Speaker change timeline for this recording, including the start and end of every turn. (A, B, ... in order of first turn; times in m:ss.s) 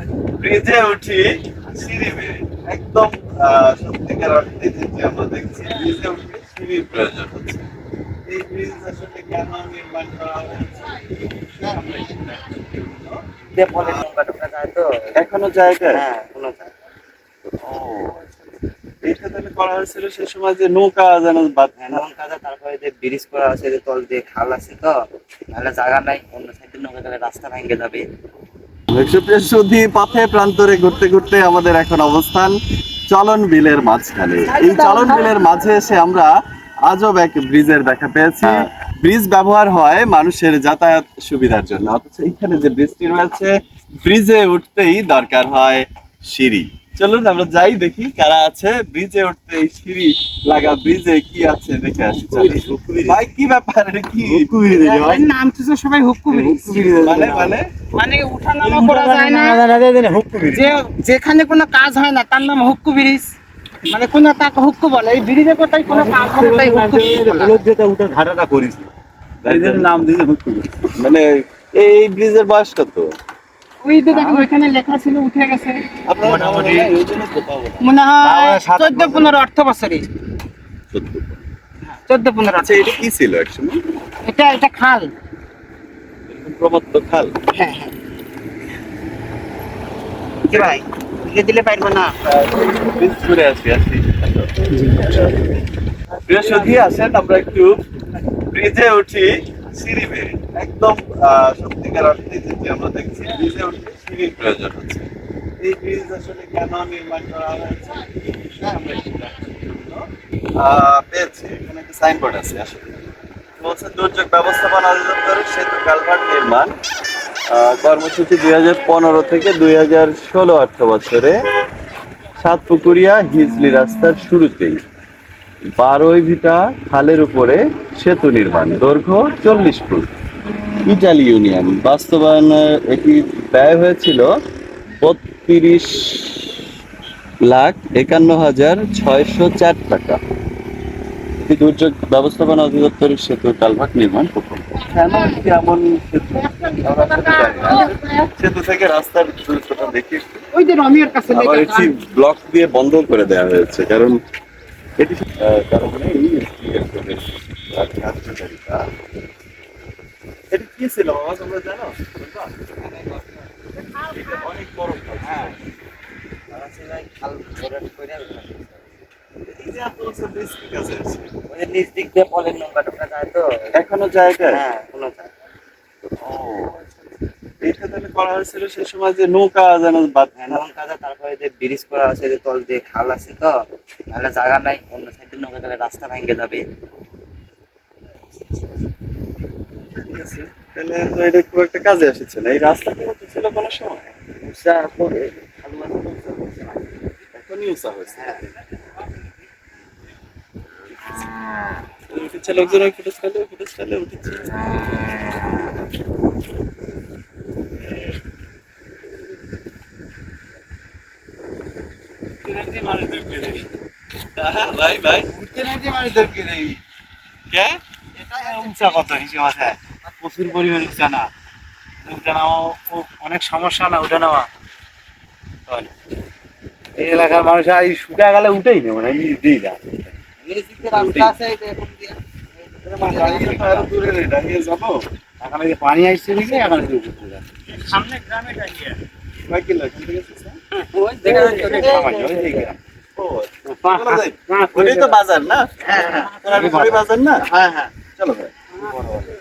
0:00.4-0:07.7 A
0:08.3-0:13.2 A
0:13.6-0:14.9 B
0:13.8-0:14.0 A
0:15.2-0:16.0 A
0:15.9-0:16.7 B
0:17.7-0:18.4 A
0:19.0-0:22.0 A
0:21.9-0:24.9 B
0:25.5-0:28.0 B
0:28.9-0:32.6 A
0:33.1-0:36.3 A
0:34.5-0:35.6 C
0:36.9-0:54.6 A
0:52.3-0:53.1 D
0:54.2-0:55.2 D
0:54.8-0:57.0 C
0:56.3-0:57.5 D
0:57.0-0:57.7 A
0:57.9-0:59.7 C
0:58.6-1:00.8 D
1:00.5-1:03.3 C
1:03.9-1:07.6 C
1:05.9-1:08.9 D
1:09.4-1:09.9 A
1:09.4-1:10.9 D
1:11.0-1:13.1 A
1:13.8-1:15.9 C
1:14.1-1:14.5 D
1:16.1-1:17.9 A
1:16.2-1:16.9 D
1:17.8-1:20.1 C
1:18.2-1:19.4 D
1:20.9-1:21.4 A
1:22.1-1:22.9 C
1:22.6-1:23.8 A
1:24.2-1:25.1 C
1:26.3-1:27.4 A
1:27.5-1:27.9 C
1:30.5-1:32.2 C
1:30.5-1:30.8 A
1:32.2-1:35.5 A
1:36.3-1:37.8 A
1:38.5-1:50.1 A
1:50.6-1:56.8 A
1:57.5-2:01.4 A
2:02.4-2:04.8 A
2:05.8-2:10.1 A
2:10.8-2:14.3 A
2:15.0-2:16.6 A
2:17.4-2:20.2 A
2:21.4-2:30.5 A
2:25.0-2:25.4 C
2:26.4-2:28.3 C
2:30.5-2:32.0 C
2:31.3-2:34.2 A
2:35.0-2:38.9 A
2:40.5-2:42.7 A
2:42.8-2:43.4 B
2:43.9-2:45.7 A
2:45.2-2:45.6 B
2:46.5-2:48.9 B
2:49.5-2:51.3 A
2:51.5-2:53.5 B
2:53.8-2:54.6 A
2:54.5-2:55.3 B
2:56.2-2:57.0 A
2:57.6-3:00.6 A
3:00.5-3:03.5 B
3:04.1-3:06.6 B
3:10.0-3:16.7 A
3:17.3-3:18.5 A
3:22.1-3:24.7 A
3:32.4-3:33.7 D
3:34.4-3:35.3 A
3:35.3-3:36.8 D
3:37.5-3:37.8 A
3:38.2-3:41.3 D
3:38.7-3:39.1 B
3:42.0-3:44.5 D
3:47.0-3:50.1 D
3:50.4-3:53.9 B
3:50.9-3:51.4 A
3:52.8-3:55.0 A
3:53.2-3:53.6 D
3:55.4-3:57.4 D
3:57.9-3:58.7 C
3:58.0-3:58.5 D
3:59.5-4:00.6 A
4:00.9-4:02.7 B
4:01.2-4:02.8 D
4:01.2-4:02.5 C
4:03.2-4:07.5 A
4:03.8-4:05.2 D
4:05.9-4:07.0 D
4:07.6-4:07.9 D
4:08.1-4:08.5 A
4:08.8-4:09.2 D